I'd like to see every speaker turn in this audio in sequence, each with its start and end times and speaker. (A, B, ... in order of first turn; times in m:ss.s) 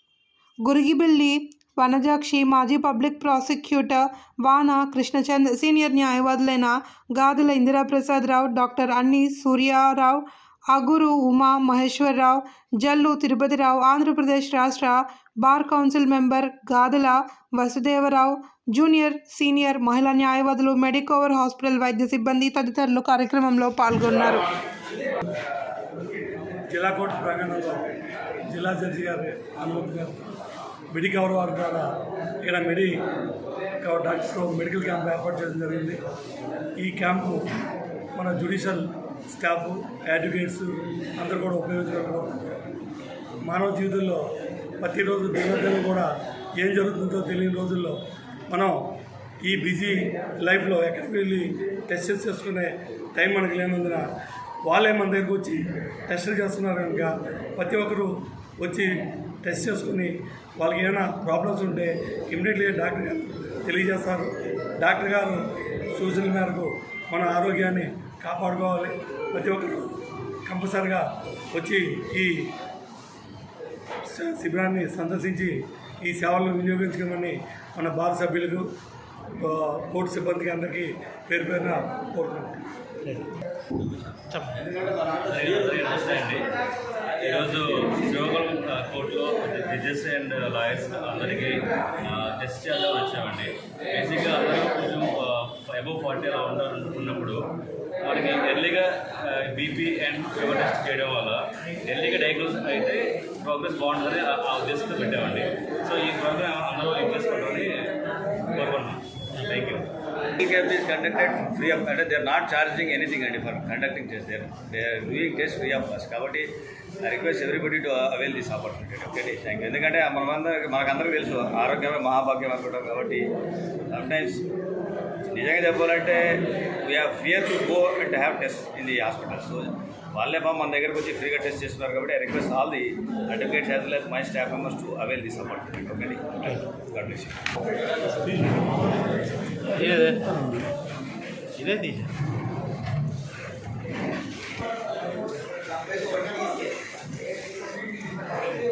0:00.6-0:24.5 A
0:26.7-0:27.8 B
0:28.5-0:30.3 B
0:30.9-0:33.0 B
0:33.8-0:36.0 B
0:36.8-0:37.5 B
0:38.2-0:42.5 B
0:43.4-0:44.2 B
0:44.8-0:48.0 B
0:48.5-0:48.8 B
0:49.4-0:54.0 B
0:54.6-0:58.9 B
0:59.4-1:05.4 B
1:06.0-1:12.5 B
1:14.1-1:18.7 B
1:19.4-1:22.6 B
1:24.3-1:24.6 C
1:25.1-1:26.5 D
1:27.2-1:37.4 D
1:38.0-1:47.9 D
1:48.5-1:49.9 D
1:50.4-1:56.5 E
1:57.0-2:03.2 E
2:03.9-2:04.4 E
2:05.3-2:17.4 E
2:19.7-2:20.6 C
2:21.6-2:22.1 C